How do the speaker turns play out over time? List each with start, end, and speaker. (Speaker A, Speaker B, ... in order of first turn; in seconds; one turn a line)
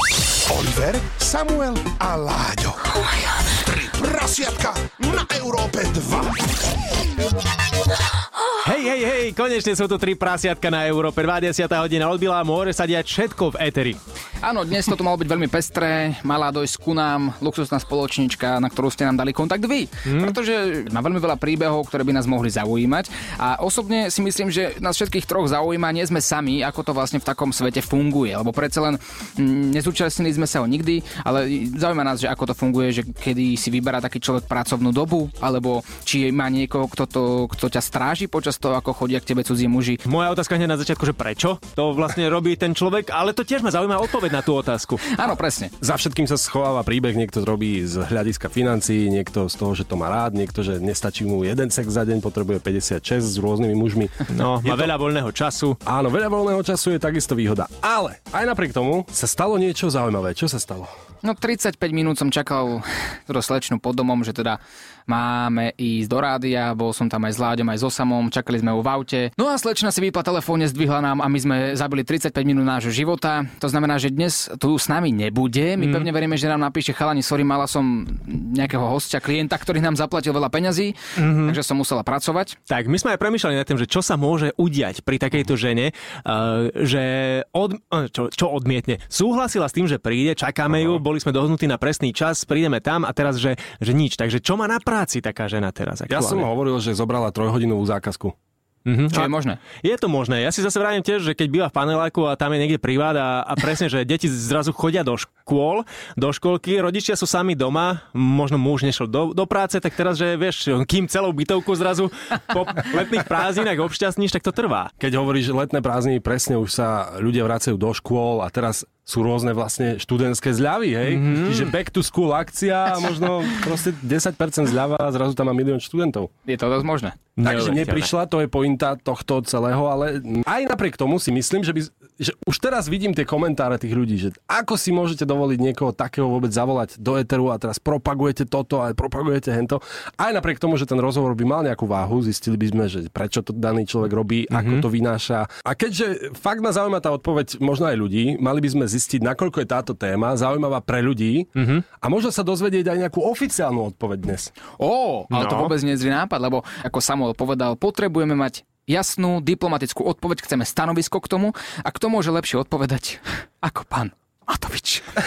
Speaker A: 0.5-3.0
Speaker A: 3.6-6.4
Speaker B: 8.6-14.0
Speaker C: 14.4-40.0
Speaker B: 20.1-20.4
Speaker B: 40.1-45.0
Speaker C: 45.1-45.7
Speaker D: 45.8-54.9
Speaker B: 54.3-55.8
Speaker D: 55.8-60.9
Speaker C: 61.2-82.6
Speaker B: 75.8-76.1
Speaker B: 81.2-81.6
Speaker B: 82.7-96.5
Speaker D: 96.1-98.3
Speaker B: 98.9-114.9
Speaker C: 99.1-99.6
Speaker D: 115.0-126.3
Speaker B: 121.0-121.7
Speaker C: 126.5-127.2
Speaker B: 127.4-128.1
Speaker D: 127.4-154.5
Speaker B: 144.5-144.8
Speaker B: 151.6-151.8
Speaker C: 154.8-165.2
Speaker B: 155.3-155.7